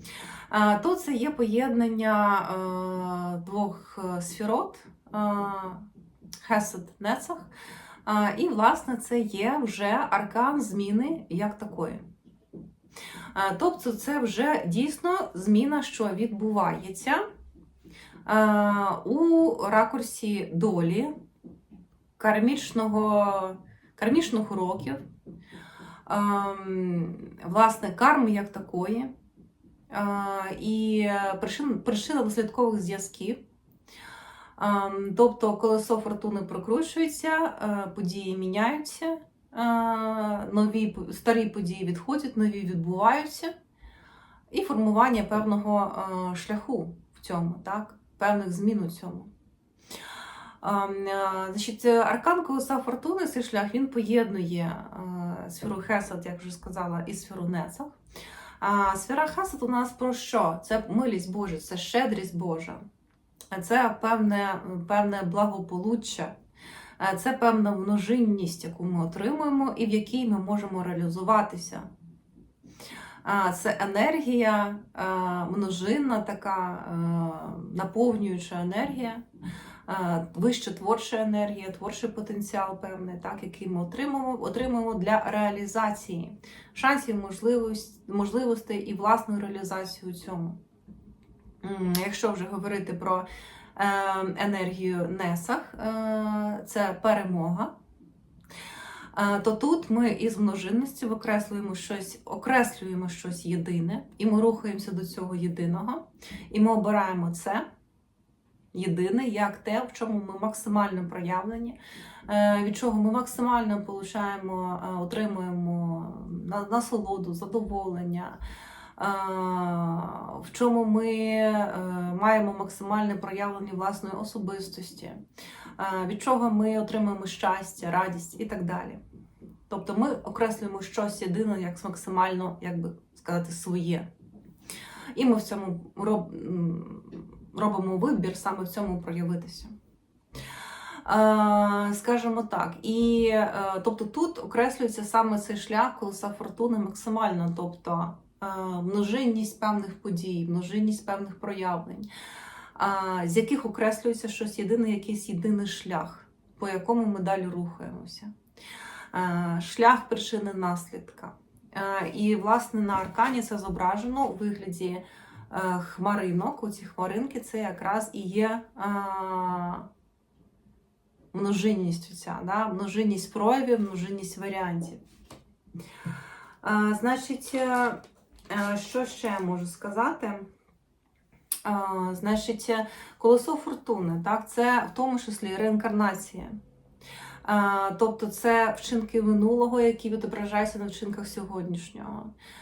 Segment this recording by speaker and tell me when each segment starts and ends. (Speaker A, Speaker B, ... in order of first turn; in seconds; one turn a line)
Speaker A: 0.5-5.8
Speaker A: 6.4-7.5
Speaker A: 8.1-12.0
Speaker A: 13.3-17.2
Speaker A: 18.2-21.1
Speaker A: 22.2-25.0
Speaker A: 26.1-29.1
Speaker A: 29.9-33.4
Speaker A: 34.6-43.5
Speaker A: 44.5-49.3
Speaker A: 50.6-57.9
Speaker A: 58.6-62.8
Speaker A: 63.5-66.3
Speaker A: 67.0-71.9
Speaker A: 73.2-79.2
Speaker A: 79.9-90.6
Speaker A: 91.6-97.7
Speaker A: 99.1-107.6
Speaker A: 108.7-118.4
Speaker A: 119.0-125.2
Speaker A: 125.8-129.0
Speaker A: 129.7-134.1
Speaker A: 135.1-139.7
Speaker A: 141.0-152.1
Speaker A: 152.8-158.3
Speaker A: 159.1-169.9
Speaker A: 171.3-175.0
Speaker A: 176.6-180.5
Speaker A: 181.6-186.6
Speaker A: 187.4-192.3